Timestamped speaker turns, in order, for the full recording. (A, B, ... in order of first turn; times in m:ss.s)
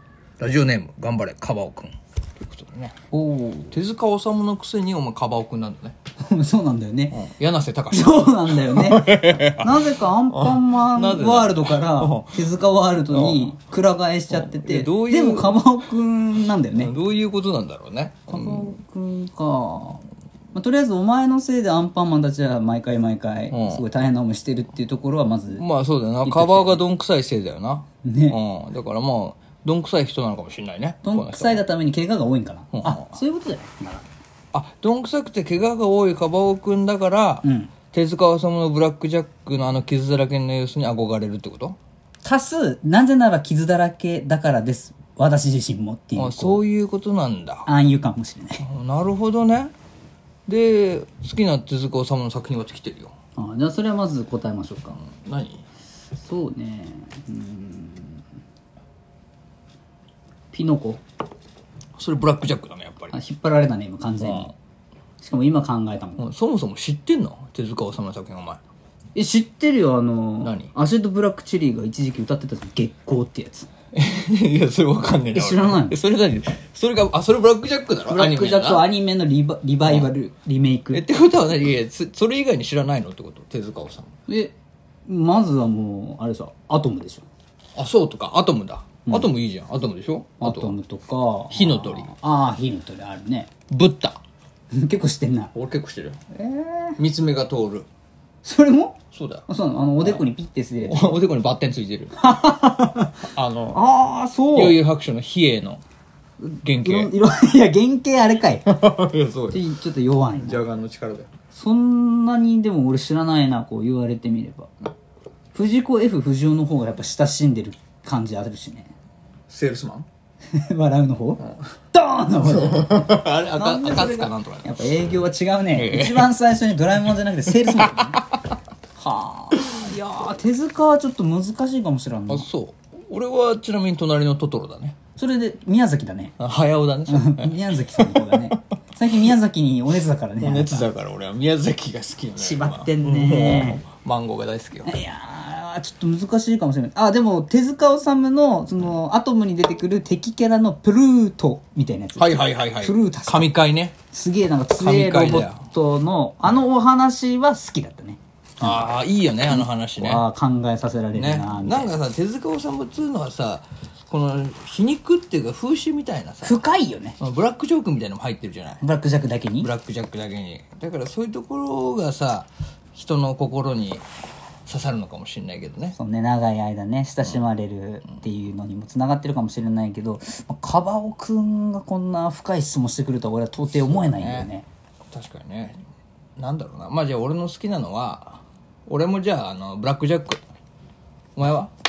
0:00.4-0:03.0 A
0:03.1-0:03.7 B
0:03.7-0:05.9 A
0:06.2-0:07.2 B
0:07.1-0:12.4 A
0:07.9-0:16.9 B
0:13.1-0:13.5 A
0:14.3-0:15.6 A
0:16.7-0:18.7 A
0:18.3-0:25.6 B
0:23.5-0:23.8 A
0:25.5-0:31.6 A
0:26.2-0:26.8 B
0:28.0-0:28.4 B
0:31.0-0:34.0 B
0:32.7-0:33.2 A
0:34.5-0:41.8 A
0:37.4-0:37.7 B
0:42.2-0:46.6 B
0:46.2-0:47.7 A
0:47.6-0:48.6 B
0:48.6-0:49.7 A
0:50.5-0:53.1 A
0:53.4-0:55.0 B
0:55.0-0:55.6 A
0:56.2-0:58.2 B
1:00.5-1:01.0 B
1:02.0-1:03.1 A
1:03.1-1:04.5 B
1:04.2-1:04.5 A
1:05.2-1:06.2 B
1:06.2-1:08.6 A
1:09.1-1:13.7 B
1:10.4-1:10.7 A
1:13.9-1:18.9 A
1:15.3-1:16.0 B
1:18.1-1:21.0 B
1:19.8-1:20.1 A
1:20.9-1:24.1 A
1:24.3-1:24.5 B
1:25.0-1:27.2 B
1:27.8-1:30.7 A
1:30.4-1:33.5 B
1:31.5-1:32.1 A
1:33.7-1:34.2 A
1:34.7-1:35.5 B
1:35.5-1:36.2 A
1:36.3-1:37.0 B
1:37.0-1:37.9 A
1:38.4-1:41.2 B
1:39.1-1:39.4 A
1:40.0-1:40.3 A
1:40.8-1:42.2 A
1:42.2-1:44.8 B
1:43.3-1:43.8 A
1:44.5-1:45.8 A
1:46.4-1:48.7 B
1:46.6-1:47.1 A
1:48.6-1:49.6 A
1:49.5-1:50.6 B
1:50.4-1:51.3 A
1:51.5-1:54.9 B
1:55.5-1:58.9 B
1:59.5-2:00.1 A
2:00.5-2:08.3 B
2:02.4-2:04.8 A
2:05.7-2:06.3 A
2:07.6-2:08.4 A
2:09.0-2:12.5 B
2:12.3-2:15.0 A
2:15.2-2:16.4 B
2:16.4-2:18.6 A
2:17.1-2:20.9 B
2:20.4-2:24.9 A
2:22.4-2:23.8 B
2:24.8-2:33.5 B
2:32.2-2:33.9 A
2:34.1-2:38.8 B
2:34.8-2:35.6 A
2:38.6-2:40.2 A
2:39.5-2:42.0 B
2:41.1-2:46.6 A
2:46.4-2:47.2 B
2:47.2-2:48.8 A
2:48.8-2:49.7 B
2:49.6-2:54.0 A
2:54.6-2:56.0 A
2:56.0-3:04.6 B
3:03.7-3:04.5 A
3:05.1-3:05.8 A
3:06.4-3:10.4 A
3:11.4-3:11.7 A